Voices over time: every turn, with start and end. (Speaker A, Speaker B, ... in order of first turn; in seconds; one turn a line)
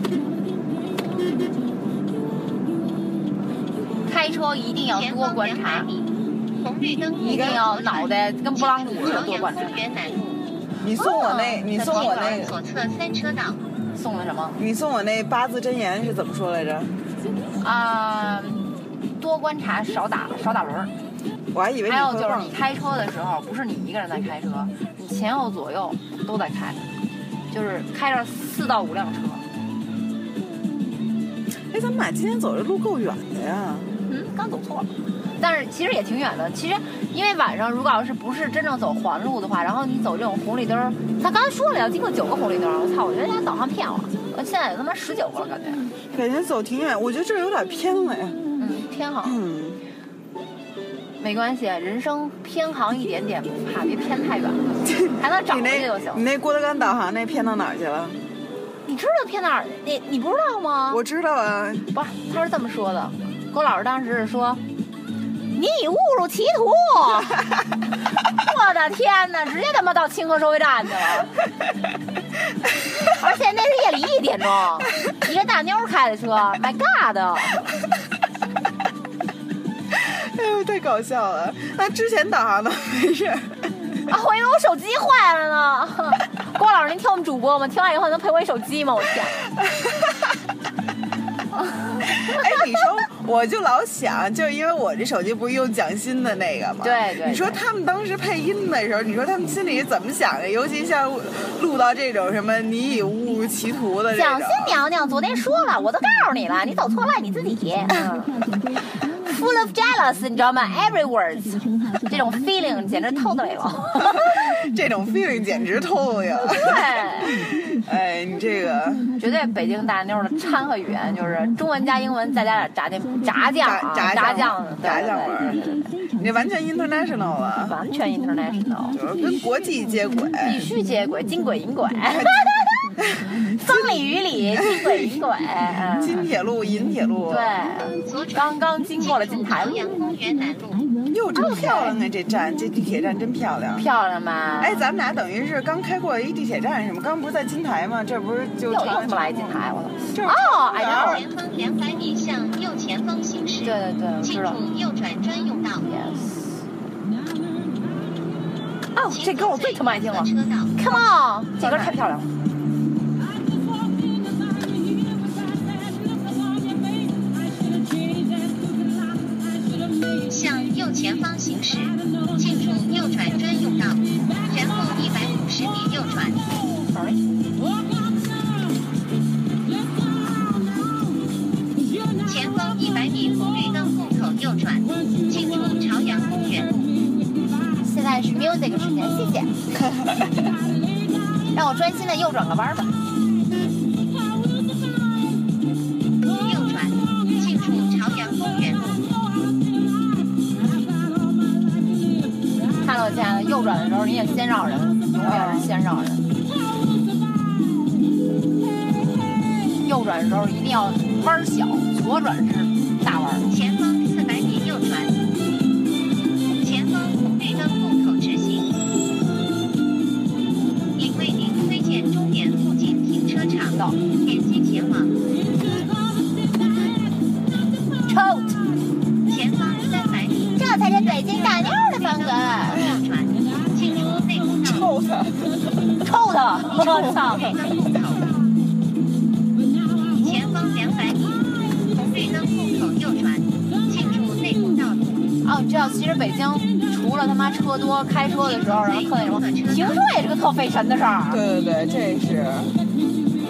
Speaker A: 4.1-5.9
Speaker B: 4.8-10.4
Speaker A: 7.2-9.8
Speaker C: 7.2-7.6
Speaker C: 10.8-12.6
Speaker A: 10.9-12.5
Speaker B: 11.8-13.6
Speaker A: 13.9-14.6
Speaker C: 14.6-16.9
Speaker A: 17.6-20.9
Speaker C: 21.5-22.6
Speaker A: 21.9-26.8
Speaker A: 27.5-29.4
Speaker C: 31.7-33.9
Speaker A: 34.0-45.9
Speaker C: 46.1-48.4
Speaker A: 48.6-49.4
Speaker C: 49.2-49.8
Speaker A: 51.2-56.2
Speaker C: 54.9-58.2
Speaker A: 58.9-61.0
Speaker C: 60.9-61.8
Speaker A: 61.9-64.6
Speaker A: 65.5-67.5
Speaker A: 68.3-71.3
Speaker A: 73.1-77.7
Speaker C: 79.9-83.6
Speaker A: 84.1-89.5
Speaker A: 91.7-92.6
Speaker C: 92.0-104.8
Speaker A: 96.8-97.6
Speaker A: 104.1-108.3
Speaker A: 109.1-114.5
Speaker C: 114.4-119.1
Speaker A: 116.5-117.4
Speaker A: 119.2-125.9
Speaker C: 123.6-125.6
Speaker C: 126.2-127.8
Speaker A: 127.6-129.0
Speaker C: 128.9-130.6
Speaker A: 130.4-132.8
Speaker C: 132.2-132.5
Speaker A: 133.5-136.2
Speaker C: 136.0-137.6
Speaker A: 137.3-139.9
Speaker B: 138.1-140.8
Speaker C: 141.1-143.8
Speaker A: 141.3-142.0
Speaker A: 143.8-144.9
Speaker C: 144.6-151.2
Speaker A: 148.7-151.2
Speaker B: 150.8-155.9
Speaker A: 153.6-154.6
Speaker A: 155.7-156.4
Speaker A: 158.9-162.3
Speaker B: 159.1-160.8
Speaker B: 161.6-161.9
Speaker B: 170.3-176.4
Speaker A: 176.5-177.2
Speaker B: 182.2-186.9
Speaker A: 187.8-189.6
Speaker A: 191.5-192.9
Speaker B: 196.4-199.1
Speaker A: 202.8-206.2
Speaker C: 205.2-205.7
Speaker A: 209.8-213.6
Speaker B: 213.5-215.1
Speaker B: 216.6-218.7
Speaker B: 220.9-225.1
Speaker A: 223.7-224.0
Speaker A: 228.1-228.5
Speaker B: 229.3-234.9
Speaker A: 230.6-233.0
Speaker C: 234.6-235.5
Speaker A: 236.0-237.6
Speaker B: 236.6-238.3
Speaker B: 240.1-241.4
Speaker B: 241.9-245.3
Speaker A: 245.4-251.4
Speaker B: 248.3-250.0
Speaker C: 251.3-252.8